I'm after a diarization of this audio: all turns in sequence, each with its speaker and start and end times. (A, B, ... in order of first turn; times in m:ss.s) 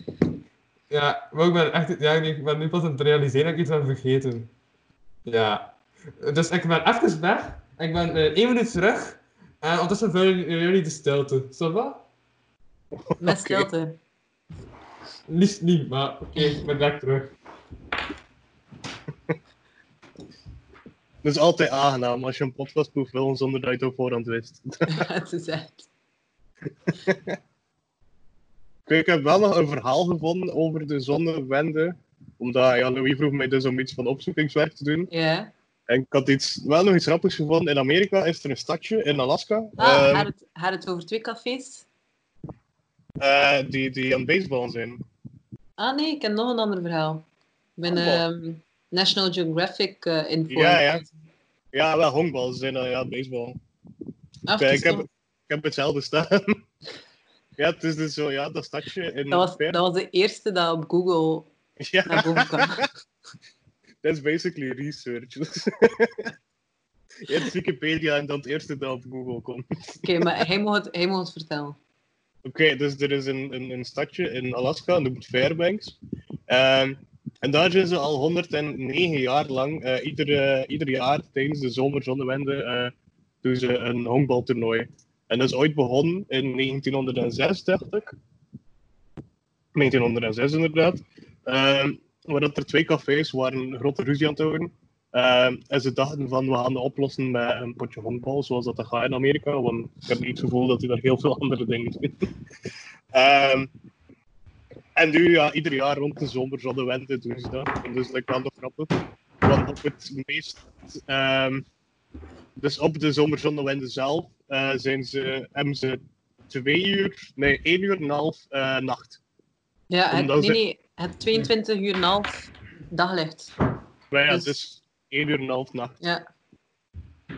0:00.9-0:04.5 A
0:05.2-0:12.0 A
0:13.1-0:13.7 B
0:13.2-0:14.0 C
0:15.3-0:17.3 A
0:21.2-0:25.0 B
0:24.9-0:25.9 C
0:27.1-0:27.3 B
0:28.9-0:35.1 B
0:35.1-0:35.5 C
0:35.9-0:40.3 B
0:39.8-0:41.8 C
0:43.2-0:45.0 B
0:45.8-0:47.2 C
0:47.8-0:51.0 C
0:47.9-0:48.2 B
0:50.5-0:51.0 B
0:51.7-0:53.6 B
0:54.5-0:55.0 C
0:54.6-0:56.6 B
0:57.6-0:59.8 B
0:59.3-1:01.5 C
1:01.8-1:02.7 B
1:02.1-1:02.9 C
1:04.0-1:06.3 B
1:07.2-1:09.6 B
1:10.0-1:11.8 C
1:12.4-1:16.0 B
1:16.5-1:28.1 B
1:29.7-1:42.1 B
1:43.1-1:43.7 B
1:45.0-1:51.6 B
1:52.6-1:59.2 B
1:59.9-2:03.5 C
2:00.1-2:00.6 B
2:04.1-2:06.0 B
2:04.3-2:04.5 C